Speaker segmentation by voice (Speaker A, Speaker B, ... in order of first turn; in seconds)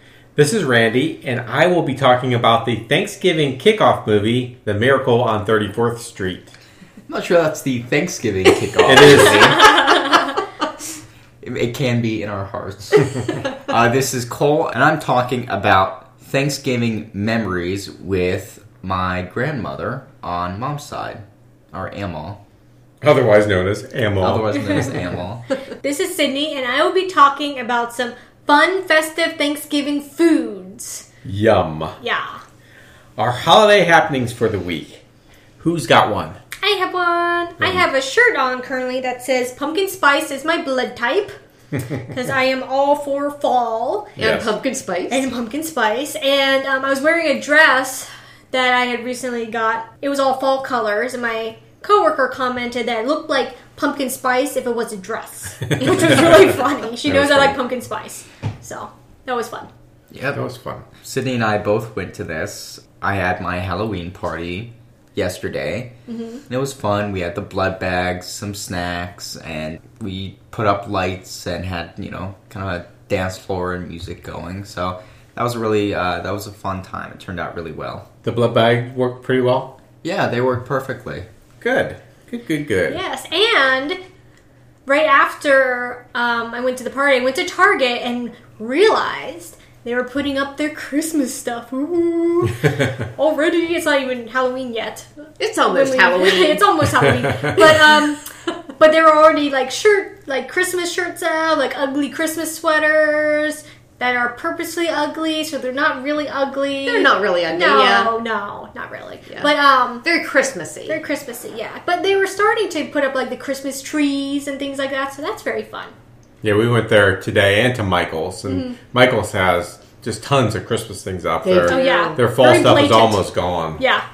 Speaker A: 0.3-6.5, 8.8-9.7, 23.0-25.1, 31.2-32.0, 33.2-35.0, 35.6-36.4, 44.2-44.5, 55.9-56.5, 57.0-57.5, 60.3-60.9, 78.2-79.7, 81.6-83.0, 116.4-123.8
Speaker B: 7.1-10.2, 11.4-22.4, 24.2-25.4, 60.1-65.9, 66.5-78.0, 80.0-81.3
Speaker C: 25.8-31.0, 32.0-32.4, 36.6-41.3, 42.1-44.1, 45.1-59.7, 66.1-66.4, 82.9-84.0, 84.8-95.1, 95.7-98.2, 98.8-110.0, 110.9-115.9, 118.5-118.8, 121.7-124.0
Speaker D: 44.2-45.2, 95.4-96.7, 106.8-108.1, 110.0-111.0, 121.4-122.2